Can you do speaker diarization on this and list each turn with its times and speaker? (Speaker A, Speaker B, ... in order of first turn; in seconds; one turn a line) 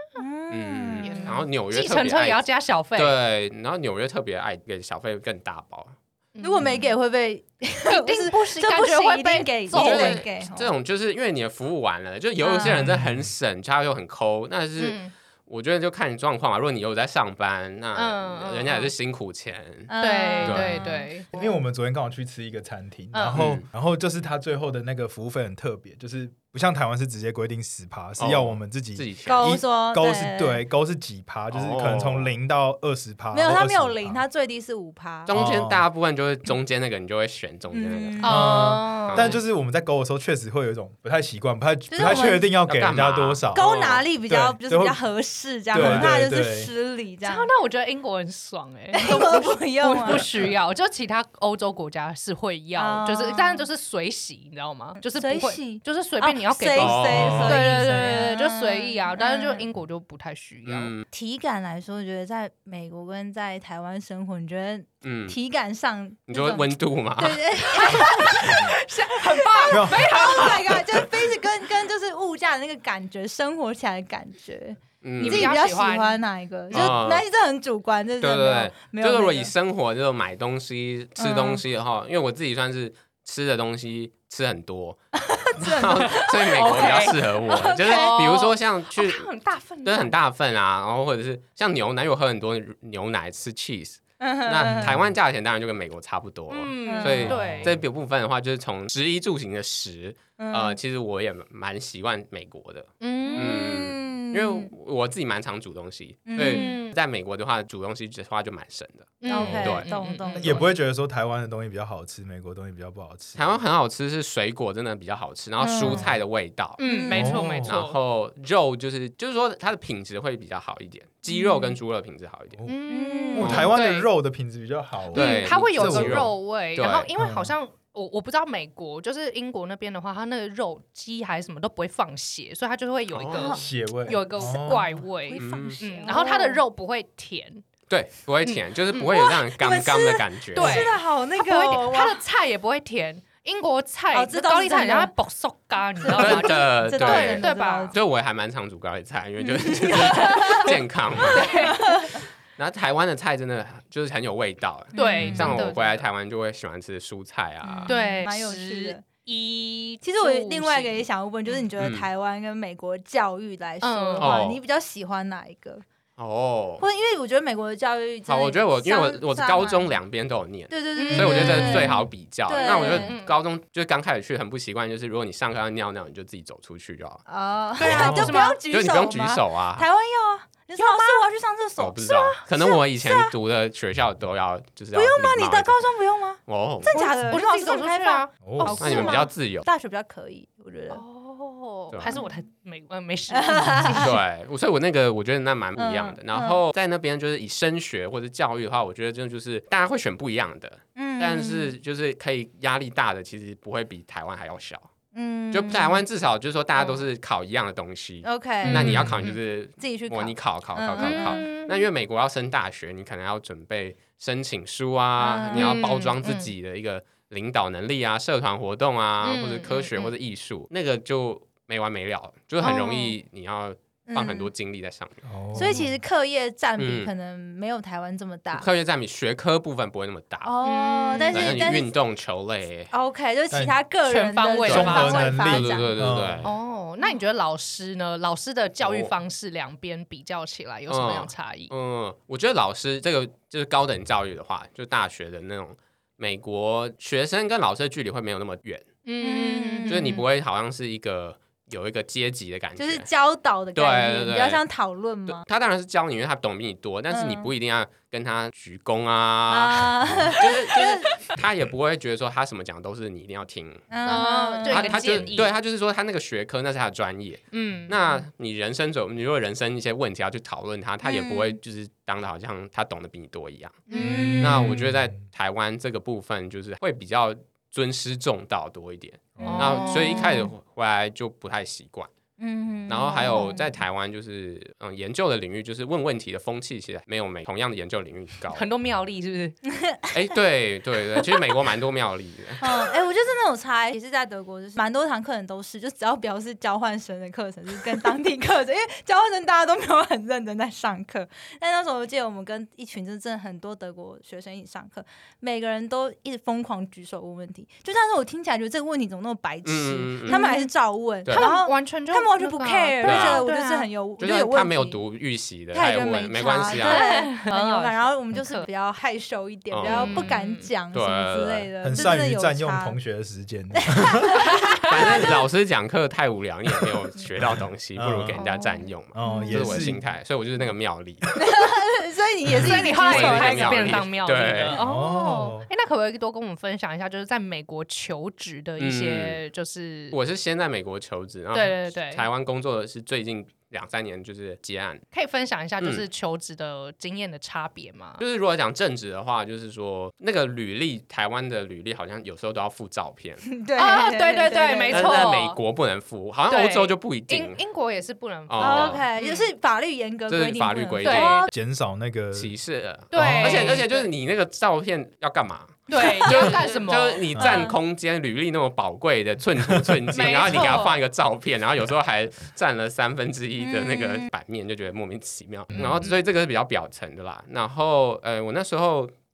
Speaker A: 0.2-1.4
Speaker B: 0.5-2.4
Speaker C: 1.0-3.1
Speaker B: 3.0-6.0
Speaker C: 6.4-6.9
Speaker A: 6.4-10.7
Speaker C: 7.9-10.2
Speaker B: 9.7-19.9
Speaker A: 12.4-12.9
Speaker D: 12.6-13.2
Speaker C: 14.8-15.1
Speaker C: 17.9-18.9
Speaker A: 19.9-21.5
Speaker C: 20.0-21.3
Speaker B: 20.4-20.8
Speaker D: 21.3-34.2
Speaker C: 23.1-23.4
Speaker B: 23.3-23.6
Speaker B: 28.2-29.6
Speaker A: 29.2-30.6
Speaker B: 31.5-32.3
Speaker A: 33.3-35.5
Speaker B: 35.3-38.4
Speaker D: 35.3-35.8
Speaker A: 37.7-38.7
Speaker C: 38.2-39.4
Speaker D: 38.3-45.0
Speaker B: 39.0-39.4
Speaker A: 41.9-42.5
Speaker B: 42.6-44.0
Speaker A: 43.5-47.5
Speaker D: 45.7-46.7
Speaker B: 45.7-46.2
Speaker C: 47.2-60.9
Speaker A: 48.9-50.3
Speaker A: 52.8-53.7
Speaker A: 55.0-59.7
Speaker B: 56.8-57.9
Speaker B: 60.7-61.0
Speaker A: 61.1-79.5
Speaker B: 65.0-65.4
Speaker B: 66.3-68.0
Speaker C: 67.7-71.0
Speaker D: 69.7-70.2
Speaker B: 75.0-75.5
Speaker C: 75.2-76.2
Speaker B: 76.7-77.2
Speaker B: 78.2-85.0
Speaker A: 81.2-81.6
Speaker A: 85.3-88.3
Speaker B: 85.6-89.3
Speaker C: 86.1-90.2
Speaker B: 89.8-109.9
Speaker A: 94.2-94.9
Speaker D: 94.7-95.0
Speaker C: 96.5-97.8
Speaker A: 96.9-97.4
Speaker D: 97.3-97.8
Speaker A: 100.4-100.8
Speaker C: 103.0-103.7
Speaker A: 103.2-104.7
Speaker A: 106.3-106.8
Speaker C: 106.4-107.0
Speaker C: 109.2-110.7
Speaker A: 109.3-110.7
Speaker D: 109.4-109.7
Speaker D: 110.4-113.6
Speaker B: 113.4-116.8
Speaker A: 115.6-116.1
Speaker D: 115.8-116.1
Speaker C: 116.8-118.0
Speaker A: 116.8-117.5
Speaker D: 117.1-117.7
Speaker B: 117.6-122.6
Speaker A: 121.3-121.6
Speaker C: 122.7-124.1
Speaker A: 122.9-123.7
Speaker D: 123.3-126.3
Speaker B: 123.4-123.7
Speaker B: 125.1-127.1
Speaker C: 125.1-137.6
Speaker D: 127.2-127.5
Speaker B: 133.1-133.6
Speaker A: 133.3-133.6
Speaker D: 133.6-135.0
Speaker A: 134.4-136.6
Speaker B: 135.3-135.8
Speaker B: 137.9-140.9
Speaker C: 138.4-139.1
Speaker A: 139.0-142.2
Speaker C: 140.5-147.9
Speaker A: 144.1-145.1
Speaker A: 146.0-148.0
Speaker B: 146.2-151.9
Speaker A: 149.4-152.2
Speaker C: 149.9-151.9
Speaker B: 152.6-157.9
Speaker A: 154.9-155.7
Speaker C: 154.9-156.1
Speaker A: 157.6-159.1
Speaker C: 157.9-161.7
Speaker A: 160.0-165.8
Speaker B: 161.8-162.1
Speaker C: 163.8-164.4
Speaker B: 164.2-164.6
Speaker B: 166.2-166.8
Speaker A: 166.8-169.9
Speaker B: 168.3-177.2
Speaker A: 170.7-173.1
Speaker C: 170.9-173.4
Speaker A: 177.3-183.3
Speaker C: 177.8-178.6
Speaker B: 177.8-179.8
Speaker C: 180.8-181.2
Speaker B: 181.8-185.9
Speaker A: 184.9-191.0
Speaker B: 186.5-187.2
Speaker C: 186.9-189.3
Speaker D: 188.4-188.8
Speaker B: 188.8-189.7
Speaker C: 190.9-194.1
Speaker A: 192.1-192.3
Speaker A: 193.3-194.1
Speaker B: 193.9-204.9
Speaker A: 195.8-196.6
Speaker A: 201.0-201.7
Speaker A: 205.1-206.0
Speaker B: 205.5-225.7
Speaker A: 208.2-209.1
Speaker C: 208.6-209.4
Speaker D: 208.7-209.2
Speaker A: 209.8-211.5
Speaker C: 211.0-211.9
Speaker A: 215.2-215.9
Speaker C: 215.5-216.5
Speaker C: 219.2-220.1
Speaker A: 222.6-223.2
Speaker A: 224.1-224.5
Speaker D: 225.2-226.0
Speaker A: 225.6-228.7
Speaker B: 226.8-227.1
Speaker B: 228.5-230.5
Speaker A: 230.4-231.9
Speaker C: 230.6-231.8
Speaker B: 231.2-232.9
Speaker A: 232.9-235.9
Speaker D: 233.5-233.8
Speaker C: 234.1-235.4
Speaker B: 234.6-236.5
Speaker D: 234.7-236.5
Speaker C: 236.4-241.7
Speaker B: 238.8-239.1
Speaker B: 240.9-248.9
Speaker C: 249.1-250.2
Speaker A: 249.2-250.2
Speaker B: 249.9-253.1
Speaker A: 252.8-255.4
Speaker B: 253.8-254.6
Speaker B: 255.3-282.1
Speaker A: 257.1-257.5
Speaker A: 259.5-261.1
Speaker C: 261.0-261.4
Speaker A: 263.9-265.3
Speaker C: 264.1-265.5
Speaker C: 267.5-268.0
Speaker C: 271.1-271.5
Speaker C: 273.9-274.4
Speaker A: 273.9-274.9
Speaker D: 273.9-275.1
Speaker D: 279.4-279.7
Speaker C: 279.4-280.3
Speaker A: 279.5-280.5
Speaker A: 282.4-283.7
Speaker B: 282.9-288.7
Speaker C: 288.5-289.6
Speaker A: 289.8-290.3
Speaker B: 290.1-292.9
Speaker A: 292.6-315.0
Speaker B: 309.6-310.5
Speaker C: 310.3-310.7
Speaker C: 311.3-313.9
Speaker B: 313.0-313.4
Speaker B: 314.2-317.1
Speaker A: 315.7-323.0
Speaker C: 316.7-318.7
Speaker B: 319.7-320.3
Speaker C: 319.8-320.7
Speaker B: 320.9-321.7
Speaker D: 321.8-324.4
Speaker A: 323.8-325.4
Speaker C: 324.5-324.9
Speaker B: 324.9-331.3
Speaker D: 327.4-328.4
Speaker A: 328.4-329.9
Speaker D: 329.1-330.1
Speaker A: 331.4-334.0
Speaker B: 332.6-334.8
Speaker C: 332.6-340.2
Speaker D: 334.7-335.7
Speaker A: 335.2-335.5
Speaker B: 338.8-339.4
Speaker B: 340.1-345.0
Speaker C: 341.5-342.3
Speaker C: 345.1-348.2
Speaker B: 348.2-353.5
Speaker A: 353.5-355.3
Speaker C: 353.8-355.6
Speaker B: 354.9-357.6
Speaker C: 356.5-359.5
Speaker B: 358.5-359.1
Speaker A: 358.6-361.5
Speaker B: 360.3-361.5
Speaker C: 361.0-361.5
Speaker D: 361.5-362.5
Speaker B: 362.3-379.1
Speaker C: 363.1-364.1
Speaker D: 363.1-363.8
Speaker C: 365.9-367.3
Speaker A: 366.2-366.5
Speaker A: 367.4-367.8
Speaker C: 370.1-371.0
Speaker A: 373.6-374.3
Speaker C: 375.8-376.1